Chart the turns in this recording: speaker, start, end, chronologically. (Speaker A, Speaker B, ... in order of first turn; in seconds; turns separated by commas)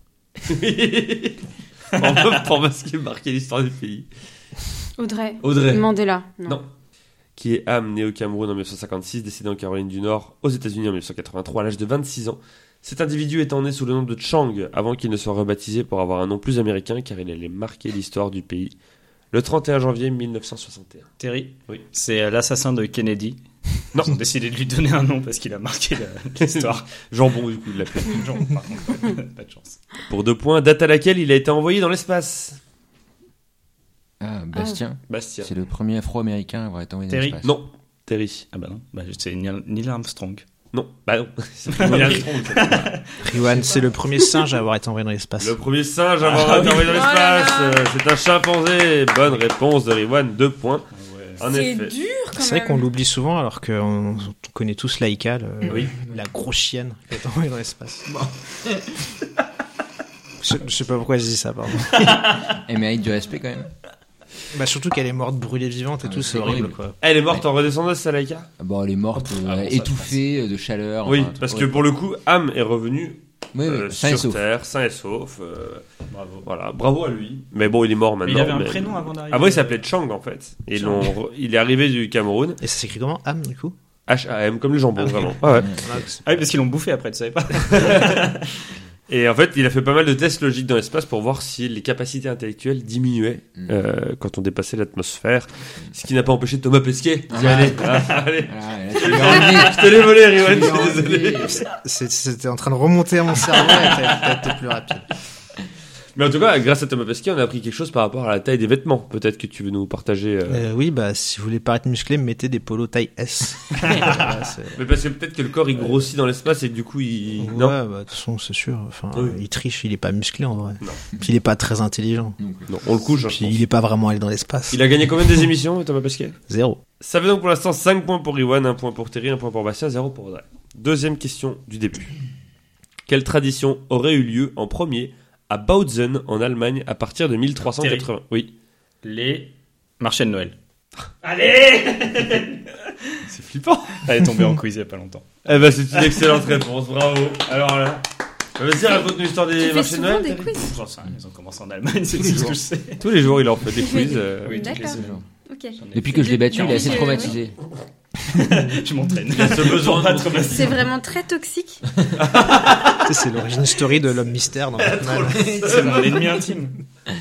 Speaker A: 0.4-4.1, Speaker B: 5.0-6.6, Speaker A: 5.4-5.8, Speaker A: 7.4-18.7, Speaker A: 19.3-21.1, Speaker C: 21.2-23.4, Speaker C: 24.0-26.9, Speaker A: 26.4-28.3, Speaker C: 28.0-29.8, Speaker A: 30.1-32.6, Speaker D: 34.2-37.5, Speaker A: 35.1-35.5, Speaker C: 37.1-37.4, Speaker A: 37.4-38.5, Speaker C: 38.5-40.4, Speaker A: 40.7-42.9, Speaker C: 41.7-43.8, Speaker E: 43.2-45.5, Speaker A: 45.4-51.9, Speaker C: 46.2-47.1, Speaker B: 46.9-47.9, Speaker C: 51.0-51.4, Speaker B: 51.5-52.8, Speaker E: 52.3-58.2, Speaker A: 55.7-55.9, Speaker D: 58.1-59.1, Speaker E: 60.4-62.0, Speaker C: 62.0-62.4, Speaker D: 62.4-63.7, Speaker E: 64.5-67.0, Speaker D: 66.0-66.8, Speaker A: 67.0-68.5, Speaker D: 68.6-71.8, Speaker C: 69.2-70.2, Speaker A: 71.0-75.8, Speaker D: 73.5-74.4, Speaker C: 76.1-76.5, Speaker A: 76.4-82.6, Speaker C: 78.2-79.8, Speaker C: 80.7-81.1, Speaker E: 82.6-83.7, Speaker A: 84.1-85.8, Speaker D: 85.5-86.0, Speaker E: 85.6-86.2, Speaker C: 86.2-88.5, Speaker A: 87.7-88.3, Speaker A: 89.1-101.6, Speaker D: 97.3-101.6, Speaker E: 97.3-97.9, Speaker C: 99.0-99.7, Speaker E: 101.6-105.1, Speaker A: 106.2-110.7, Speaker E: 110.5-114.8, Speaker C: 113.9-114.2, Speaker A: 114.7-117.8, Speaker E: 117.4-122.4, Speaker A: 119.1-119.4, Speaker D: 122.4-122.7, Speaker A: 122.7-123.6, Speaker E: 123.2-124.8, Speaker A: 124.7-126.4, Speaker E: 126.5-126.8, Speaker A: 127.0-132.1, Speaker A: 133.1-138.4, Speaker C: 137.6-138.5, Speaker C: 139.0-140.6, Speaker C: 141.2-143.3, Speaker A: 143.3-144.0, Speaker C: 143.9-145.3, Speaker A: 145.4-147.6, Speaker C: 147.5-148.0, Speaker A: 148.6-150.7, Speaker B: 149.6-150.7, Speaker C: 150.6-153.0, Speaker D: 152.1-152.6, Speaker A: 153.0-154.8, Speaker B: 153.7-157.3, Speaker C: 154.4-155.2, Speaker D: 154.9-155.2, Speaker C: 155.8-157.3, Speaker D: 155.9-157.6, Speaker C: 158.3-160.8, Speaker A: 159.3-160.8, Speaker B: 160.5-161.8, Speaker A: 162.1-163.0, Speaker E: 163.0-165.5, Speaker A: 164.8-166.3, Speaker C: 165.4-166.8